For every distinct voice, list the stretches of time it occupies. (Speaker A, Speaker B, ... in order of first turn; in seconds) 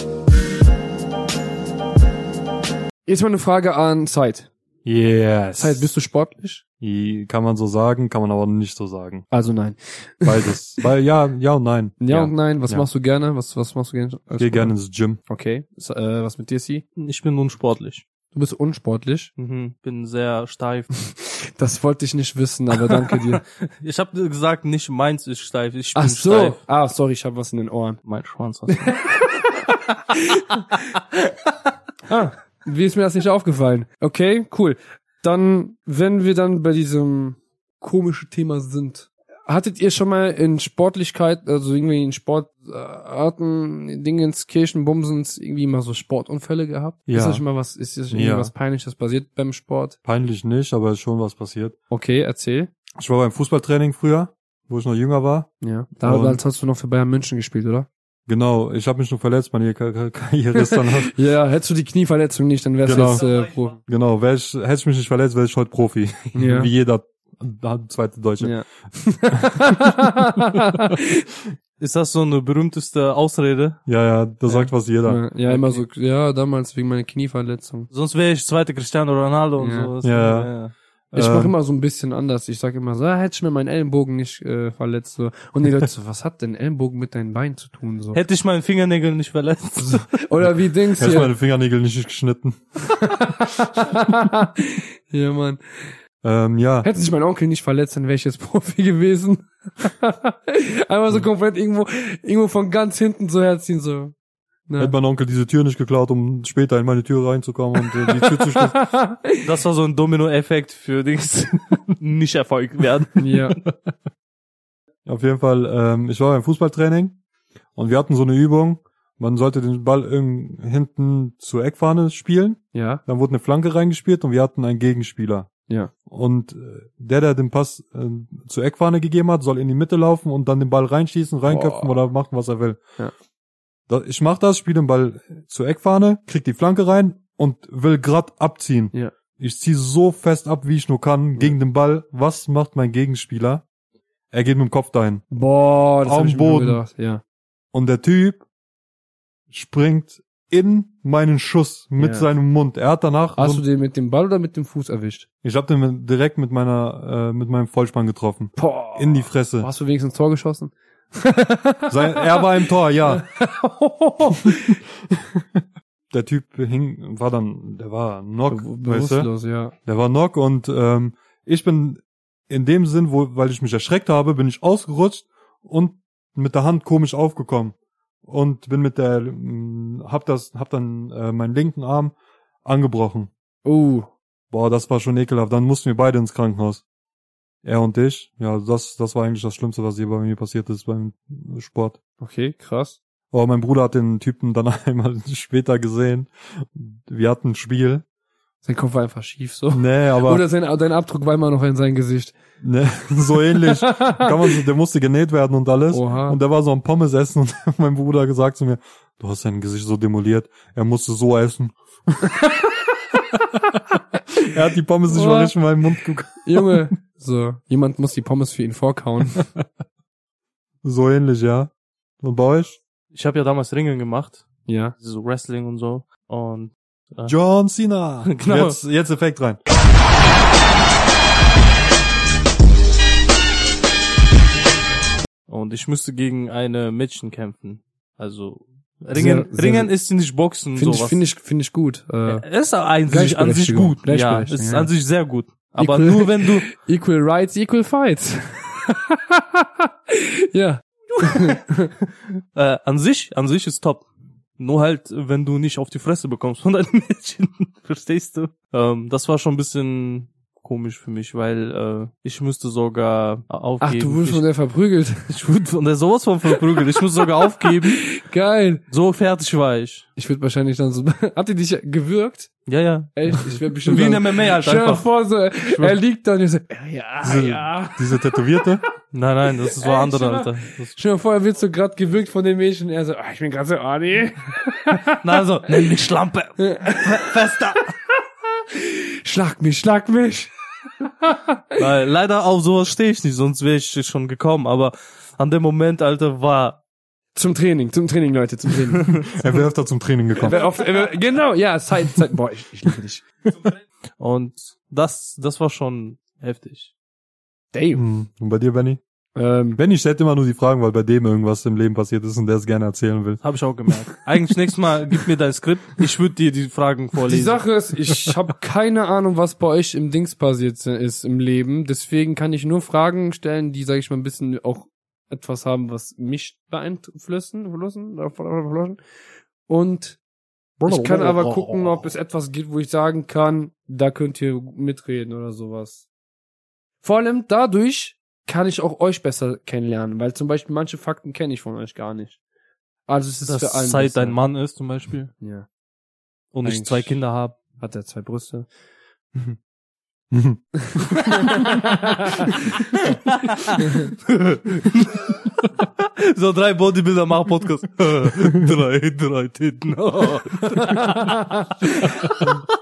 Speaker A: 3.0-4.5, 5.5-6.6, 9.3-10.6, 12.0-14.7, 15.3-16.8, 18.3-19.3, 21.2-23.4, 25.9-28.0, 28.7-29.5, 30.1-30.6, 32.1-50.0, 51.9-52.7, 55.6-57.9, 60.5-63.8, 66.3-66.7, 68.4-71.2, 74.5-77.9, 79.6-79.9, 81.1-88.2, 89.8-91.3, 93.0-95.9, 96.8-104.1, 104.7-104.9, 107.8-109.5, 113.2-113.6, 122.7-123.0, 131.4-131.9, 145.3-147.2, 152.0-152.3, 153.3-155.2, 158.6-162.5, 163.1-164.8, 168.5-169.7, 183.6-184.1, 192.2-193.0, 198.6-202.3, 203.5-204.6, 205.9-206.4, 212.3-212.7, 215.1-215.5, 216.4-219.4, 224.7-224.9, 239.1-239.9, 240.8-242.4, 243.1-244.9, 245.8-251.9, 263.8-265.3, 267.6-268.8, 270.1-272.5, 273.1-278.7, 279.7-285.2, 286.6-287.9, 288.7-291.8, 297.3-299.3, 300.4-303.2, 307.7-308.0, 309.3-309.8, 317.3-329.0, 329.7-330.2, 330.9-336.0, 337.0-342.4, 343.1-344.4, 345.4-345.7, 346.6-347.2, 347.8-348.7, 350.8-352.9, 353.8-354.1, 360.8-362.2
Speaker B: 4.8-5.8, 6.8-9.2, 10.2-12.8, 14.4-15.2, 47.1-47.4, 48.1-48.5, 50.0-51.8, 52.9-55.5, 56.0-56.4, 58.3-61.1, 62.8-63.2, 63.8-68.6, 69.3-69.8, 73.9-75.2, 80.0-80.5, 81.1-81.5, 91.0-93.2, 96.2-96.9, 104.8-108.9, 115.0-117.2, 117.7-125.5, 126.0-132.8, 133.9-143.6, 144.3-145.2, 146.0-146.8, 147.7-148.4, 149.5-153.6, 155.4-159.7, 161.9-163.2, 165.1-169.3, 169.8-177.7, 178.2-182.1, 182.6-183.3, 184.5-186.8, 187.6-192.0, 193.3-198.0, 199.7-200.4, 202.6-212.3, 214.4-216.8, 220.8-222.8, 227.3-229.6, 277.2-278.8, 299.3-300.6, 307.9-309.0, 309.8-313.4, 330.8-331.9, 350.3-351.5, 358.4-358.7
Speaker C: 17.0-18.0, 19.4-20.9, 23.0-26.6, 28.0-29.0, 71.8-73.8, 75.5-75.8, 77.9-80.7, 88.1-90.2, 109.4-113.5, 223.1-227.3, 228.3-228.8, 235.5-241.2, 242.3-246.7, 251.2-251.6, 252.5-254.1, 254.6-264.4, 265.3-268.1, 268.9-270.1, 272.7-275.1, 275.7-275.9, 279.1-280.9, 285.1-287.9, 291.8-296.8, 304.2-306.9, 313.4-317.6, 343.4-345.3, 346.5-347.6, 352.9-362.6